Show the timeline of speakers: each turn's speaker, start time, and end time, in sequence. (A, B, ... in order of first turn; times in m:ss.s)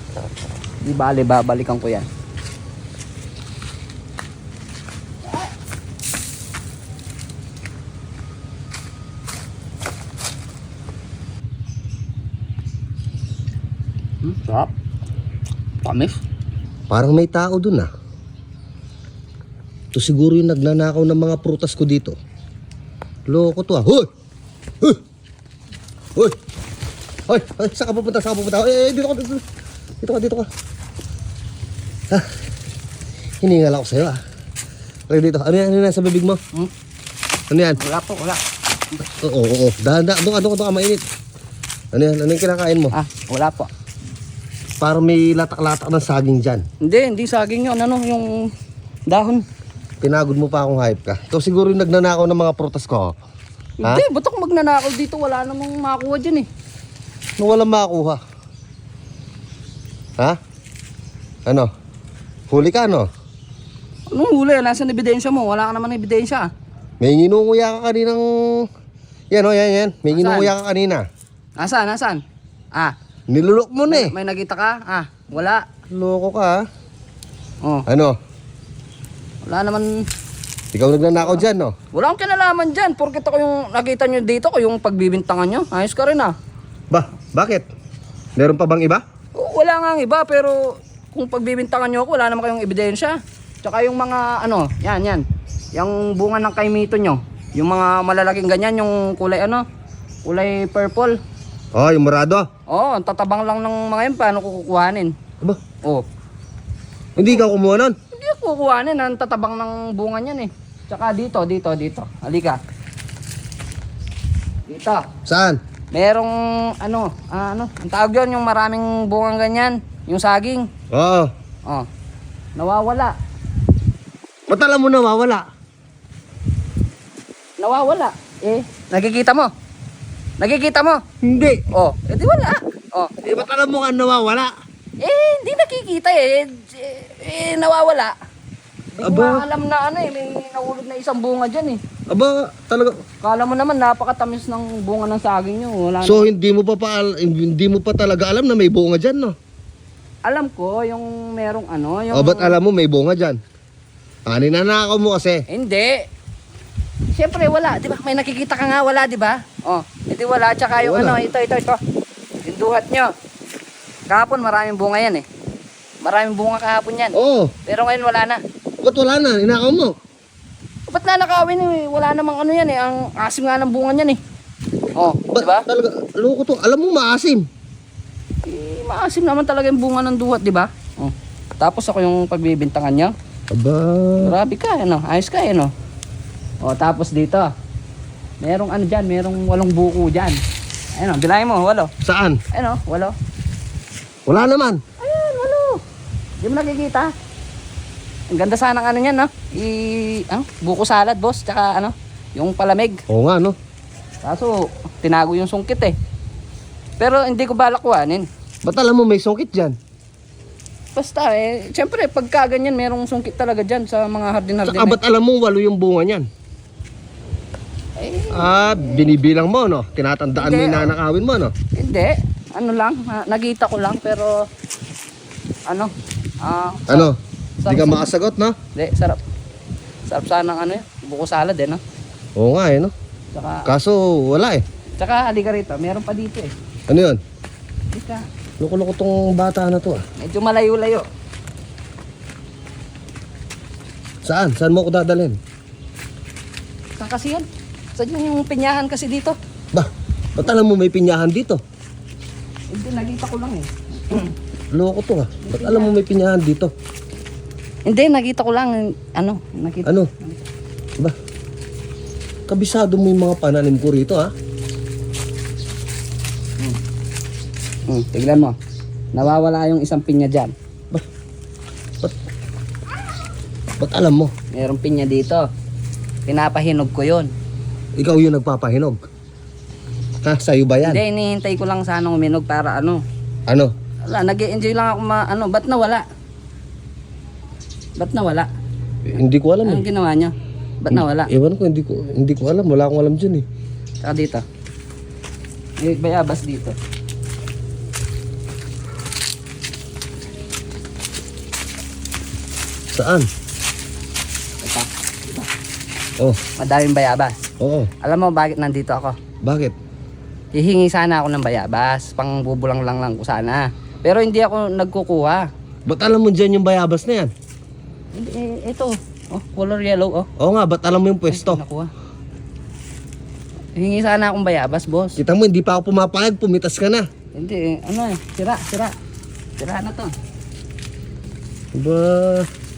0:00.8-0:02.1 A
0:14.2-0:14.7 A
0:15.8-0:16.2 A
0:16.9-0:17.9 B
0:19.9-0:22.2 B
0:23.3-0:24.1 B
0:27.3-0:29.4 B
0:30.0-0:30.5 B
0:33.4-0:34.2 B
0:35.1-0:36.4 B
0:37.5-0:37.8 B
0:37.8-0:38.4 A
0:39.2-0:41.0 B
0:41.9-0:42.9 B
0:42.9-0:43.7 A
0:44.8-0:46.6 B
0:46.8-0:48.5 A
0:49.1-0:49.4 A
0:50.0-0:53.1 B
0:53.8-0:56.5 A
0:57.4-0:58.2 B
1:02.5-1:03.1 B
1:04.1-1:06.5 A
1:07.0-1:08.7 B
1:09.3-1:11.0 B
1:10.1-1:10.5 A
1:11.6-1:12.2 A
1:13.3-1:14.1 B
1:13.9-1:15.6 A
1:15.9-1:16.6 B
1:17.9-1:18.2 B
1:19.4-1:20.0 A
1:20.7-1:21.7 B
1:21.2-1:26.3 A
1:26.9-1:27.7 B
1:28.4-1:29.0 B
1:29.4-1:35.2 A
1:35.8-1:39.6 A
1:40.2-1:41.2 A
1:41.7-1:42.5 B
1:42.7-1:45.1 A
1:47.2-1:48.0 B
1:48.1-1:52.6 A
1:54.7-1:55.1 A
1:55.3-1:55.6 B
1:55.9-2:00.7 A
2:00.9-2:01.3 B
2:02.6-2:03.1 A
2:04.5-2:05.4 B
2:07.6-2:09.5 A
2:10.4-2:11.0 A
2:11.2-2:11.6 B
2:11.7-2:13.3 A
2:13.2-2:14.5 B
2:15.0-2:18.1 A
2:19.0-2:21.8 A
2:19.0-2:19.4 B
2:22.1-2:23.0 B
2:23.2-2:26.3 A
2:26.0-2:29.4 B
2:30.2-2:32.6 A
2:32.1-2:33.4 B
2:34.3-2:35.4 B
2:35.5-2:36.0 A
2:37.2-2:41.8 A
2:40.8-2:41.2 B
2:42.4-2:43.1 A
2:44.1-2:45.2 A
2:46.0-2:47.2 A
2:47.2-2:47.5 B
2:47.7-2:48.4 A
2:48.8-2:49.9 B
2:50.9-2:54.2 A
2:55.0-2:55.7 A
2:55.3-2:57.4 B
2:58.5-3:03.1 A
3:03.5-3:04.4 B
3:04.2-3:05.7 A
3:06.6-3:07.5 A
3:08.4-3:10.4 A
3:11.0-3:11.9 A
3:12.0-3:12.4 B
3:12.5-3:13.1 A
3:14.3-3:14.8 B
3:15.0-3:15.8 A
3:16.4-3:17.1 A
3:18.3-3:23.0 A
3:23.1-3:23.6 B
3:24.2-3:26.0 A
3:27.0-3:28.3 A
3:28.6-3:29.8 B
3:31.0-3:35.0 A
3:34.6-3:36.3 B
3:38.0-3:39.1 A
3:38.3-3:41.5 B
3:40.4-3:40.9 A
3:41.8-3:44.4 A
3:45.7-3:47.1 A
3:46.9-3:48.6 B
3:47.6-3:48.1 A
3:48.8-3:49.2 A
3:50.1-3:51.8 A
3:52.4-3:52.9 B
3:53.3-3:53.7 A
3:53.7-3:54.6 B
3:55.0-3:56.5 A
3:56.9-3:57.2 B
3:57.9-3:58.2 A
3:58.6-4:00.0 B
4:00.2-4:01.1 A
4:04.2-4:05.4 B
4:07.0-4:09.4 A
4:09.7-4:11.6 B
4:12.7-4:14.4 A
4:14.7-4:16.7 B
4:15.4-4:16.0 A
4:17.8-4:20.4 A
4:22.5-4:24.3 B
4:27.9-4:28.6 A
4:29.1-4:30.5 A
4:33.8-4:34.3 B
4:34.5-4:35.4 A
4:36.3-4:37.3 A
4:38.0-4:39.0 B
4:40.2-4:41.0 B
4:40.8-4:43.0 A
4:44.0-4:46.0 A
4:48.0-4:48.5 A
4:49.1-4:49.8 B
4:49.6-4:51.3 A
4:50.9-4:53.4 B
4:54.0-4:54.4 A
4:55.8-4:56.8 A
5:02.9-5:03.3 B
5:04.6-5:05.5 A
5:06.6-5:07.4 A
5:07.6-5:07.9 B
5:08.0-5:09.2 A
5:09.4-5:09.7 B
5:10.6-5:15.5 A
5:15.9-5:17.3 B
5:18.2-5:20.3 A
5:20.4-5:21.6 B
5:21.3-5:21.9 A
5:23.8-5:25.2 A
5:25.2-5:27.0 B
5:27.4-5:28.9 A
5:29.6-5:30.1 A
5:31.8-5:32.5 B